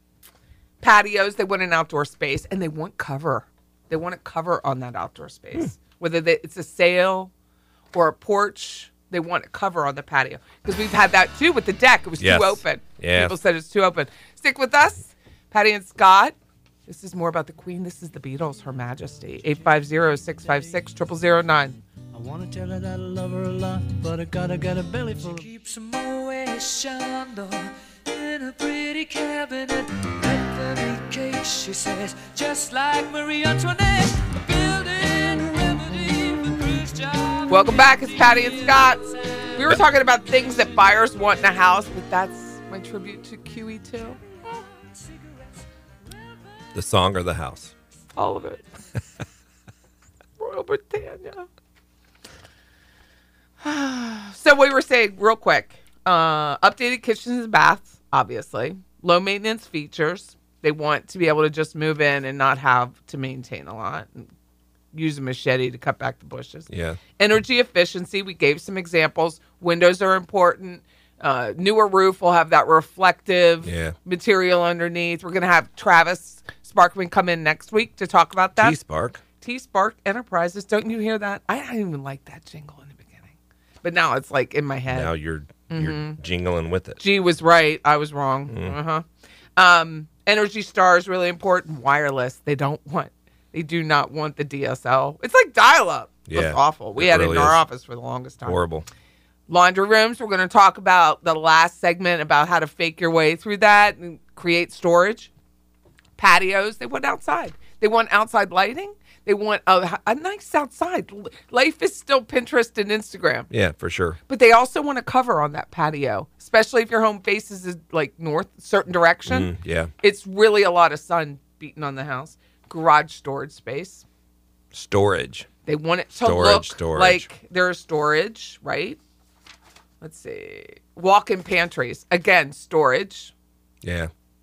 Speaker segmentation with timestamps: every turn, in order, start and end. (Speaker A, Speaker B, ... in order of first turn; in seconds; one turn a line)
Speaker A: 0.8-7.3
Speaker A: 7.9-16.4
Speaker B: 12.2-13.4
Speaker A: 16.9-21.8
Speaker C: 19.4-20.7
Speaker C: 22.1-39.7
Speaker A: 37.5-44.2
Speaker B: 46.7-47.7
Speaker A: 48.2-48.7
Speaker A: 50.4-51.5
Speaker A: 53.6-64.3
Speaker A: 64.9-78.8
Speaker B: 66.7-67.0
Speaker B: 73.6-74.0
Speaker B: 78.6-79.2
Speaker A: 79.4-85.1
Speaker B: 84.9-87.0
Speaker A: 85.7-86.2
Speaker A: 87.0-89.0
Speaker B: 88.5-88.8
Speaker A: 89.6-98.6
Speaker B: 96.3-97.6
Speaker B: 98.5-98.9
Speaker A: 99.5-105.3
Speaker A: 106.2-113.5
Speaker B: 113.5-114.2
Speaker A: 114.3-124.0
Speaker B: 119.3-119.9
Speaker B: 124.7-125.5
Speaker A: 125.7-129.0
Speaker B: 126.2-127.3
Speaker A: 130.0-133.3
Speaker B: 133.8-134.1